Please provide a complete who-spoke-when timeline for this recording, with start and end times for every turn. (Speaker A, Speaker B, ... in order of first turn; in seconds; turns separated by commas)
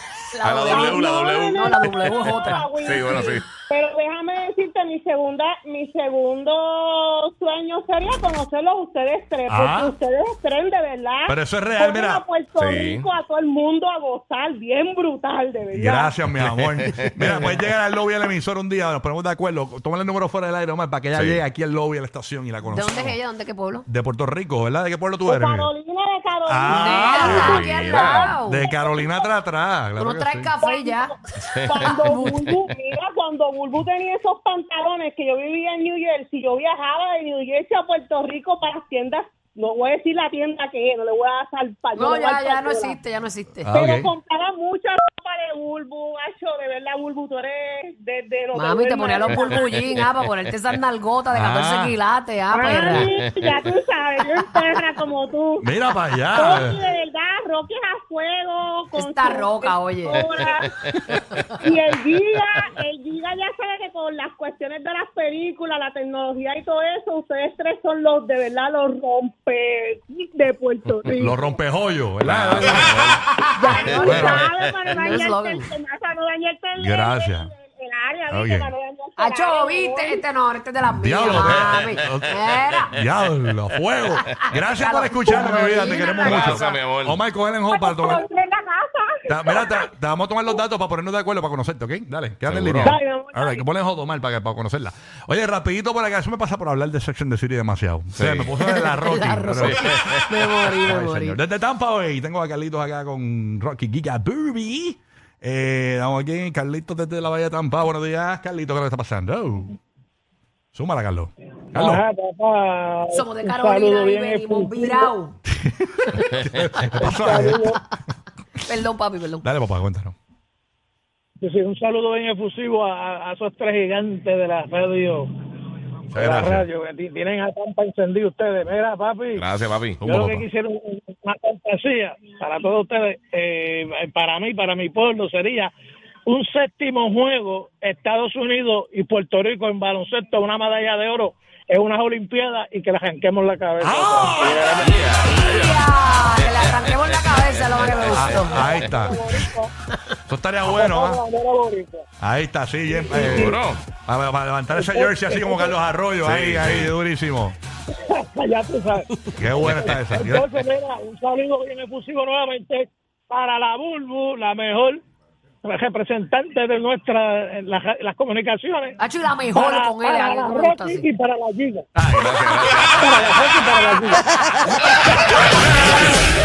Speaker A: 0.3-2.7, Speaker B: 0.4-3.5, Speaker C: 0.7-16.1, Speaker D: 9.5-9.9, Speaker D: 11.3-12.2, Speaker B: 12.6-13.1, Speaker D: 15.7-23.2, Speaker B: 16.4-17.6, Speaker B: 21.1-21.4, Speaker A: 22.6-23.9, Speaker D: 23.9-25.7, Speaker C: 25.2-29.2, Speaker D: 26.5-27.6, Speaker A: 26.7-28.7, Speaker B: 27.1-28.4, Speaker D: 28.4-30.5, Speaker A: 30.0-31.1, Speaker C: 30.6-43.0, Speaker B: 31.4-31.9, Speaker A: 31.8-32.4, Speaker A: 41.9-43.7, Speaker D: 43.6-44.1, Speaker C: 43.7-50.0, Speaker A: 48.5-53.2, Speaker B: 49.5-50.0, Speaker D: 51.3-52.0, Speaker C: 52.5-60.7, Speaker B: 52.9-53.6, Speaker D: 55.6-56.8, Speaker A: 58.9-60.5, Speaker C: 61.6-71.4, Speaker D: 71.0-73.2, Speaker B: 72.2-74.6, Speaker A: 73.2-75.7, Speaker C: 73.6-80.2, Speaker D: 73.9-74.5, Speaker D: 76.8-77.5, Speaker D: 78.3-78.7, Speaker A: 79.2-82.9, Speaker D: 81.0-88.2, Speaker B: 81.3-82.6, Speaker A: 84.3-86.4, Speaker C: 85.3-86.9, Speaker B: 86.2-87.2, Speaker C: 87.7-89.8, Speaker D: 89.3-100.2, Speaker B: 92.5-93.0, Speaker C: 92.8-93.6, Speaker B: 98.2-98.5, Speaker A: 98.6-101.4, Speaker B: 99.6-100.2, Speaker D: 100.8-109.8, Speaker D: 110.7-112.0, Speaker E: 111.7-115.1, Speaker A: 113.1-115.3, Speaker D: 115.5-117.7, Speaker A: 117.0-117.7, Speaker E: 117.0-117.8, Speaker A: 118.7-119.5, Speaker D: 119.4-120.1, Speaker E: 121.4-125.3, Speaker D: 126.1-126.7, Speaker E: 126.1-129.5, Speaker B: 129.3-130.0, Speaker D: 130.0-130.4, Speaker E: 130.0-135.7, Speaker E: 136.3-144.7, Speaker D: 143.8-145.1, Speaker B: 144.4-145.8, Speaker A: 144.8-149.1, Speaker B: 146.3-148.3, Speaker D: 148.1-149.5, Speaker E: 148.3-149.7, Speaker D: 150.3-151.2, Speaker E: 150.7-152.0, Speaker D: 152.2-157.6, Speaker B: 153.1-153.8, Speaker E: 153.2-153.5, Speaker E: 154.7-155.7, Speaker B: 156.2-156.9, Speaker E: 158.1-165.0, Speaker D: 159.4-160.5, Speaker E: 165.6-169.0, Speaker A: 169.0-171.0, Speaker E: 169.5-171.8, Speaker B: 172.0-173.4, Speaker E: 172.9-174.2